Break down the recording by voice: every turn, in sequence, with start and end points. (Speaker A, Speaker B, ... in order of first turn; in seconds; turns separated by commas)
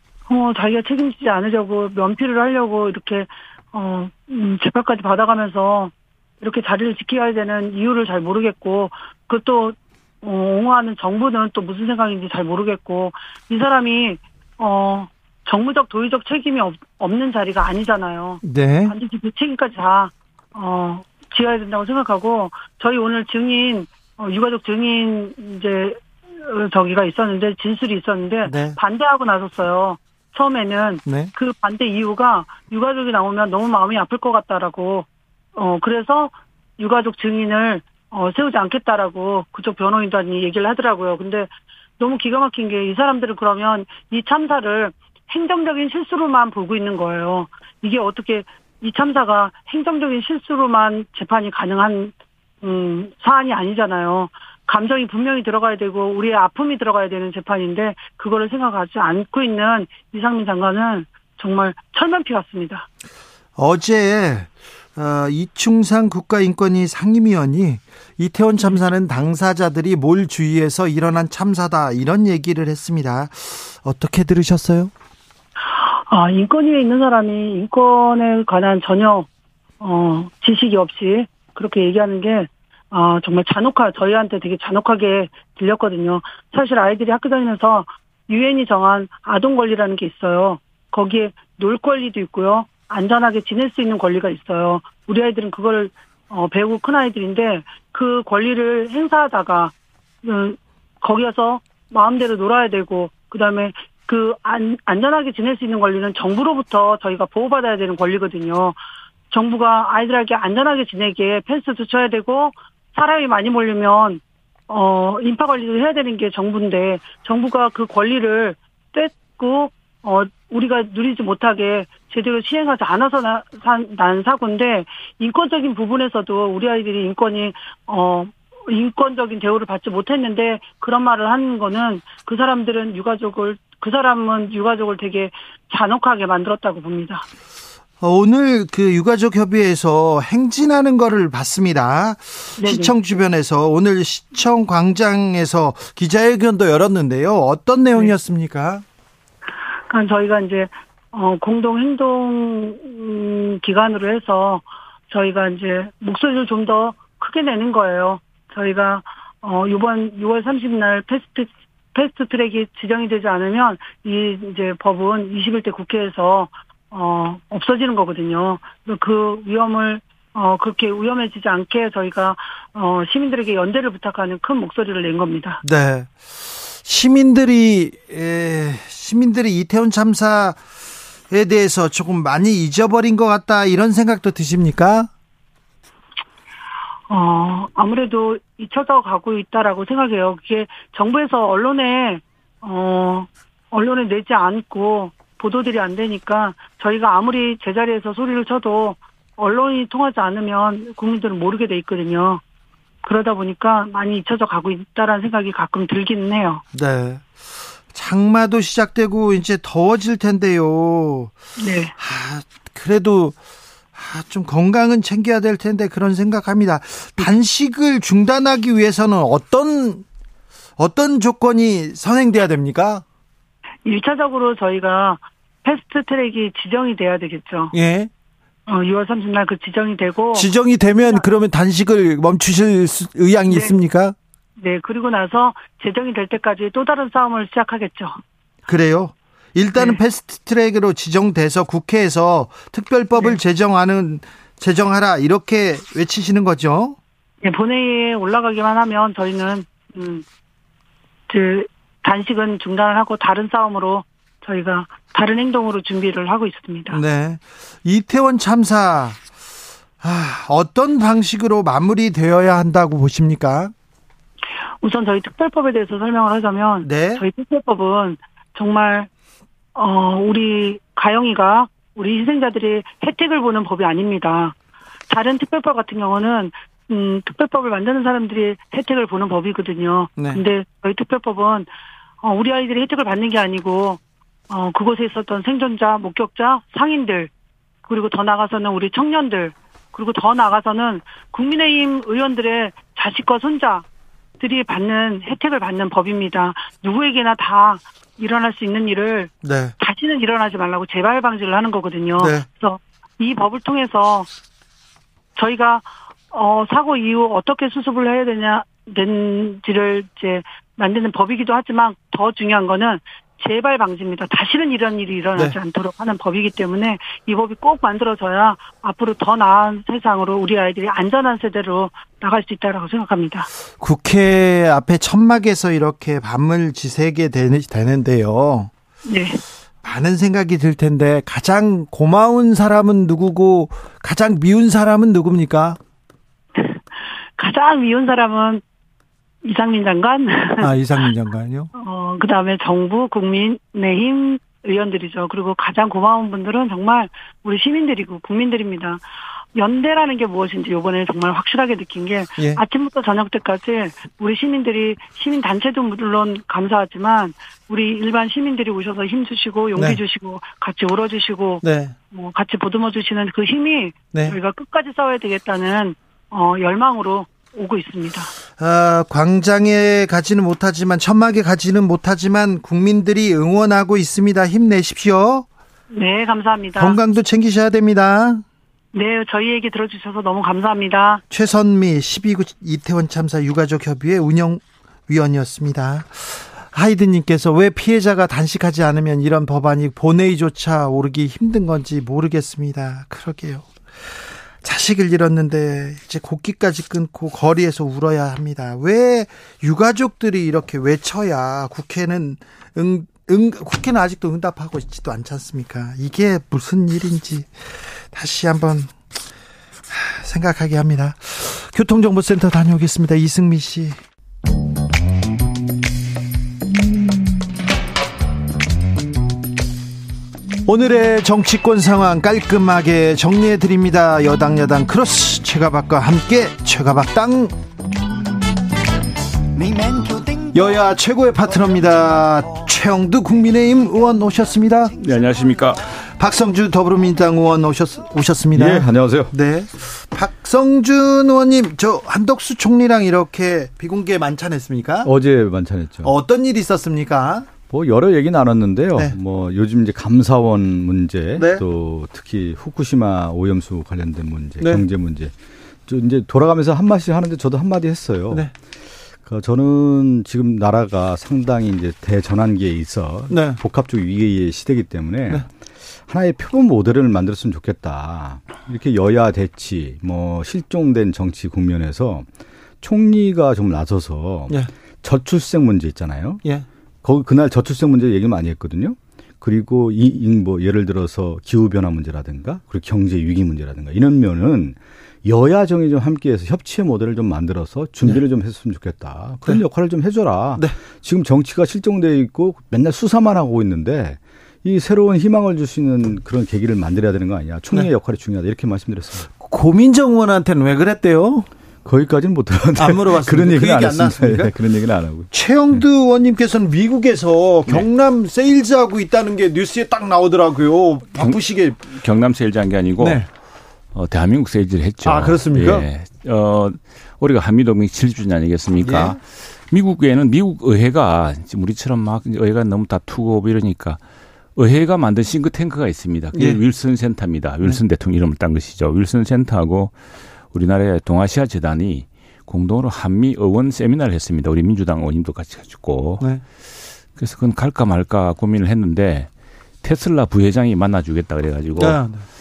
Speaker A: 0.3-41.5, Speaker B: 18.4-18.9, Speaker B: 28.4-28.8, Speaker B: 31.1-31.3, Speaker A: 42.0-62.9, Speaker B: 63.6-74.9, Speaker A: 75.7-79.3, Speaker A: 79.8-108.8, Speaker A: 109.3-137.2, Speaker B: 138.0-148.8, Speaker A: 142.6-142.9, Speaker A: 149.9-175.6, Speaker B: 175.6-180.6, Speaker B: 181.3-185.1, Speaker A: 187.1-202.4, Speaker A: 203.0-206.6, Speaker B: 206.7-211.3, Speaker A: 211.6-211.9, Speaker B: 212.0-213.3, Speaker B: 213.9-220.0, Speaker B: 220.8-223.0, Speaker A: 223.8-227.7, Speaker B: 227.7-228.1, Speaker A: 228.7-230.5, Speaker B: 230.3-234.2, Speaker A: 234.6-238.2, Speaker B: 238.7-247.0, Speaker A: 247.4-250.2, Speaker A: 251.3-257.0, Speaker B: 256.9-259.2, Speaker B: 260.0-263.7, Speaker A: 264.8-269.1, Speaker B: 266.8-267.2, Speaker A: 269.7-274.5, Speaker A: 275.1-281.7, Speaker A: 282.2-287.3, Speaker A: 287.9-293.8, Speaker A: 294.4-304.3, Speaker B: 299.4-299.7, Speaker B: 302.2-302.4, Speaker A: 305.4-323.5, Speaker B: 323.8-328.7, Speaker A: 329.1-329.4, Speaker B: 329.8-335.8, Speaker A: 336.6-336.8, Speaker A: 337.4-338.6, Speaker A: 339.4-340.7, Speaker B: 340.6-341.7, Speaker A: 341.7-349.0, Speaker A: 349.5-368.3, Speaker B: 361.6-361.9, Speaker B: 368.6-375.5, Speaker A: 375.9-377.0, Speaker B: 376.8-378.4, Speaker A: 378.9-381.2, Speaker B: 381.3-394.1, Speaker B: 394.6-408.9, Speaker B: 409.9-414.0, Speaker B: 420.6-427.6, Speaker B: 429.7-435.0, Speaker C: 435.0-435.9, Speaker B: 436.0-445.1, Speaker D: 438.5-439.3, Speaker D: 445.0-446.1, Speaker B: 446.0-447.5, Speaker D: 447.6-455.3, Speaker B: 451.4-451.6, Speaker D: 455.9-458.5, Speaker D: 459.2-465.4, Speaker B: 463.3-463.6, Speaker D: 466.1-472.2, Speaker D: 472.8-476.4, Speaker D: 477.0-499.3, Speaker B: 499.4-501.5, Speaker D: 501.8-505.8, Speaker B: 502.8-504.5, Speaker B: 505.3-511.8, Speaker C: 511.2-513.3, Speaker B: 513.0-513.2, Speaker C: 513.9-524.0, Speaker B: 515.0-515.9, Speaker B: 518.8-519.2, Speaker C: 524.5-529.9, Speaker B: 526.3-526.6, Speaker C: 530.5-536.3, Speaker C: 537.1-539.3, Speaker C: 539.8-542.0, Speaker B: 541.8-542.2